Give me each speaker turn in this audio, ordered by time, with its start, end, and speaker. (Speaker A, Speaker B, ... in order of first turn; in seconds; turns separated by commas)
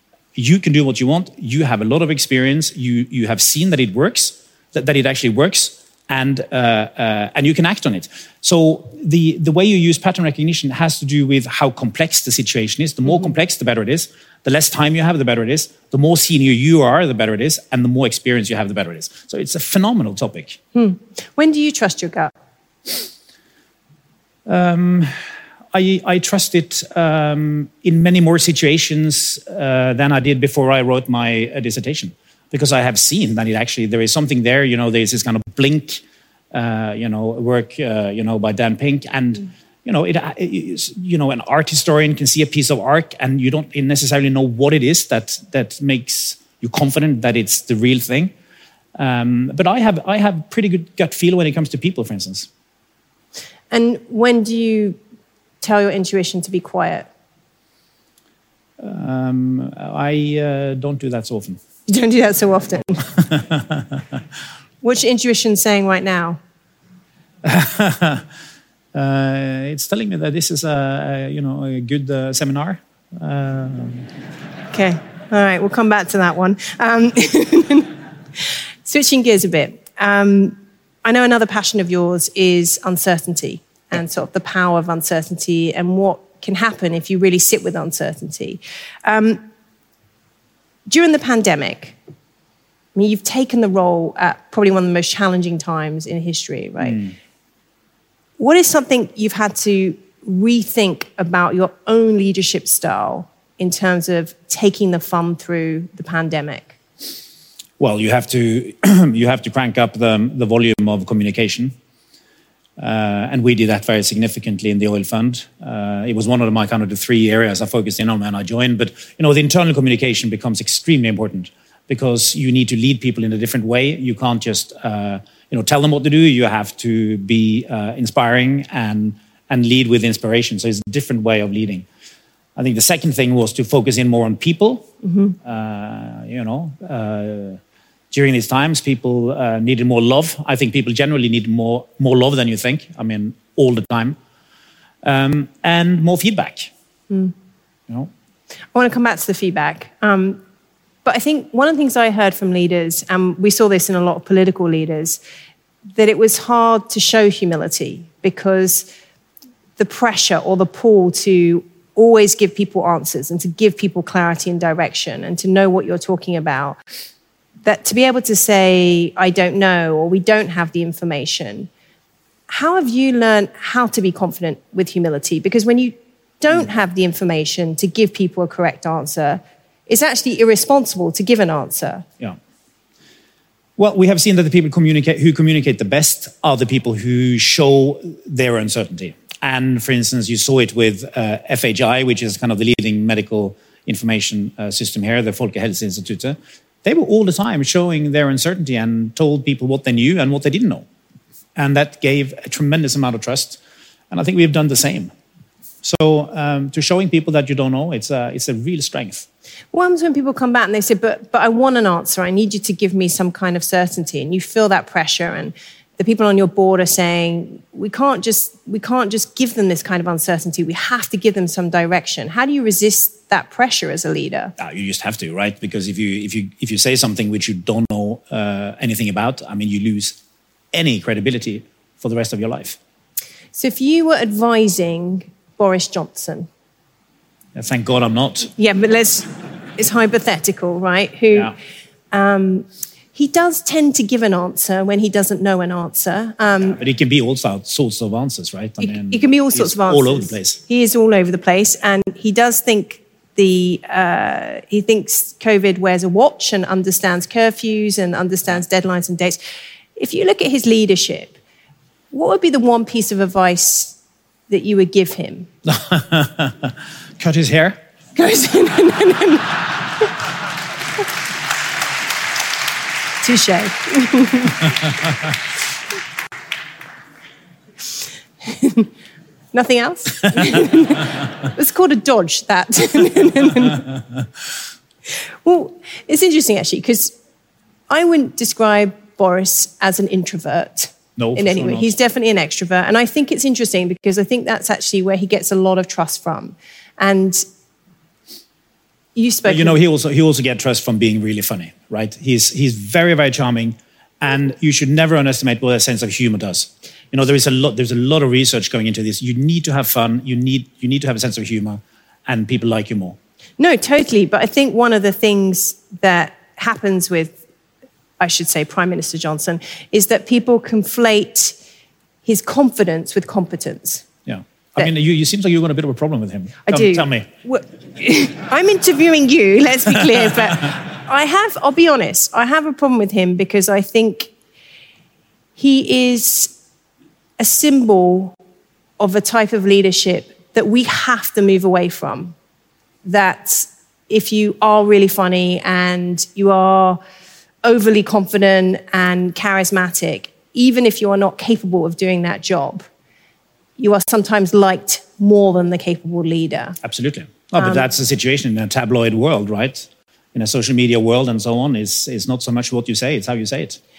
Speaker A: 0.3-20.6, Speaker B: 20.8-22.3, Speaker A: 24.4-48.3, Speaker A: 49.0-52.5, Speaker B: 53.7-55.0, Speaker B: 55.6-57.1, Speaker A: 58.8-61.6, Speaker B: 61.9-63.1, Speaker B: 64.8-66.4, Speaker A: 67.4-68.2, Speaker A: 68.9-74.1, Speaker B: 74.7-77.9, Speaker B: 78.8-89.4, Speaker B: 90.9-92.0, Speaker B: 92.9-97.1, Speaker A: 96.8-97.1, Speaker B: 98.4-106.8, Speaker A: 107.8-111.8, Speaker A: 112.8-131.8, Speaker A: 132.6-134.9, Speaker B: 135.0-135.3, Speaker A: 135.4-137.6, Speaker A: 138.1-144.2, Speaker A: 145.0-146.7, Speaker B: 148.7-150.4, Speaker B: 151.0-155.2, Speaker B: 155.9-158.9, Speaker B: 159.8-166.8, Speaker B: 167.6-171.7, Speaker B: 172.5-182.1, Speaker A: 183.8-200.8, Speaker A: 201.6-203.6, Speaker A: 204.1-205.1, Speaker A: 205.8-209.2, Speaker B: 209.7-224.5, Speaker A: 224.6-230.2, Speaker A: 230.7-232.8, Speaker B: 233.5-236.5, Speaker A: 237.5-238.5, Speaker B: 238.6-241.5, Speaker B: 242.1-246.8, Speaker A: 246.7-250.6, Speaker B: 248.8-259.4, Speaker B: 259.9-261.4, Speaker B: 262.1-263.9, Speaker B: 264.5-265.5, Speaker A: 265.6-267.8, Speaker B: 268.1-270.1, Speaker B: 273.2-274.7, Speaker B: 278.4-278.9, Speaker B: 279.5-283.9, Speaker B: 285.4-287.1, Speaker B: 287.9-297.4, Speaker A: 291.1-291.9, Speaker B: 299.1-299.8, Speaker A: 299.4-313.2, Speaker B: 313.6-317.4, Speaker B: 318.2-321.6, Speaker B: 322.2-324.1, Speaker A: 324.3-327.3, Speaker B: 326.7-334.3, Speaker B: 335.6-336.5, Speaker B: 337.4-338.3, Speaker B: 339.0-342.3, Speaker B: 343.0-347.0, Speaker B: 347.6-352.9, Speaker B: 353.8-356.8, Speaker A: 356.8-363.8